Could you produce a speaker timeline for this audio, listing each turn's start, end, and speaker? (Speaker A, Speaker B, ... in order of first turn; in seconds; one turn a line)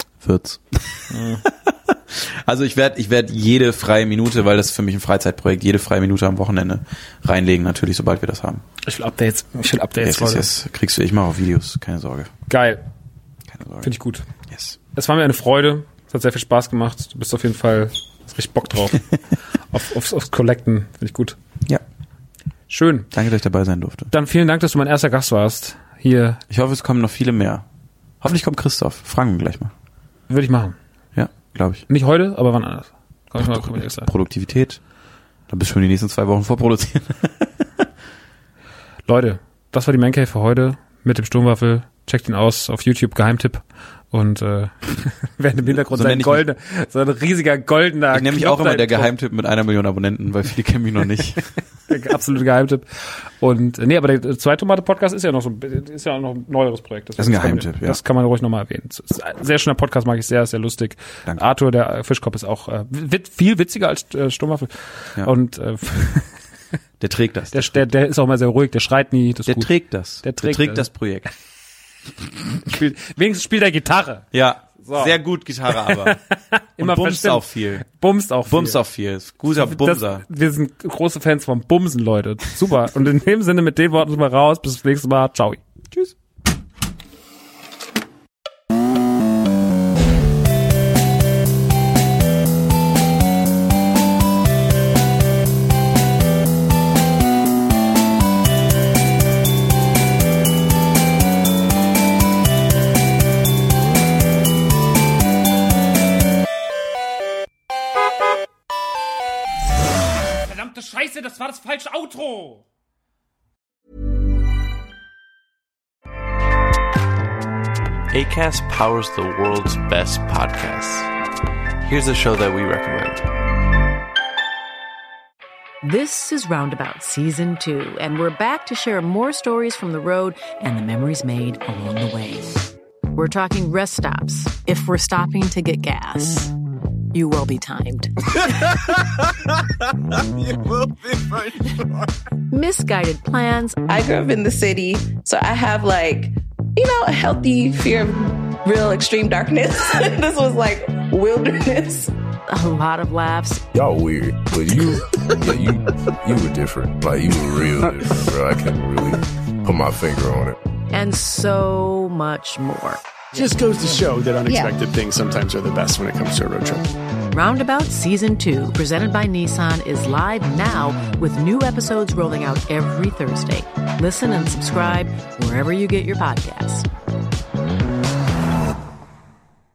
Speaker A: 0.2-8.6
Speaker B: 1.1-1.4
Speaker B: 8.8-10.4
Speaker A: 10.0-12.3
Speaker B: 12.5-12.8
Speaker A: 13.5-13.9
Speaker B: 13.8-14.2
Speaker A: 14.5-14.8
Speaker B: 14.9-19.1
Speaker B: 19.7-21.4
Speaker B: 22.7-23.1
Speaker A: 23.1-24.1
Speaker B: 24.1-26.4
Speaker A: 26.5-27.6
Speaker A: 28.2-29.7
Speaker B: 30.3-30.8
Speaker A: 31.1-31.8
Speaker B: 31.9-34.1
Speaker A: 33.4-34.8
Speaker A: 35.5-37.5
Speaker B: 39.1-49.1
Speaker A: 45.6-46.4
Speaker A: 48.1-51.5
Speaker B: 51.9-52.8
Speaker B: 53.4-66.3
Speaker A: 57.2-58.0
Speaker A: 67.0-67.8
Speaker B: 67.5-69.7
Speaker A: 69.5-71.3
Speaker B: 70.2-70.9
Speaker B: 72.5-74.2
Speaker A: 74.3-76.2
Speaker B: 74.8-75.2
Speaker B: 75.7-78.8
Speaker A: 76.8-77.8
Speaker A: 78.5-80.2
Speaker B: 79.5-85.6
Speaker B: 110.4-112.6
Speaker C: 118.1-121.1
Speaker C: 121.8-123.3
Speaker D: 125.8-136.5
Speaker D: 137.1-139.0
Speaker D: 142.5-143.8
Speaker E: 143.8-152.1
Speaker D: 152.5-153.6
Speaker F: 153.7-160.6
Speaker D: 160.9-163.0
Speaker G: 163.3-167.0
Speaker D: 164.5-164.7
Speaker D: 167.3-176.9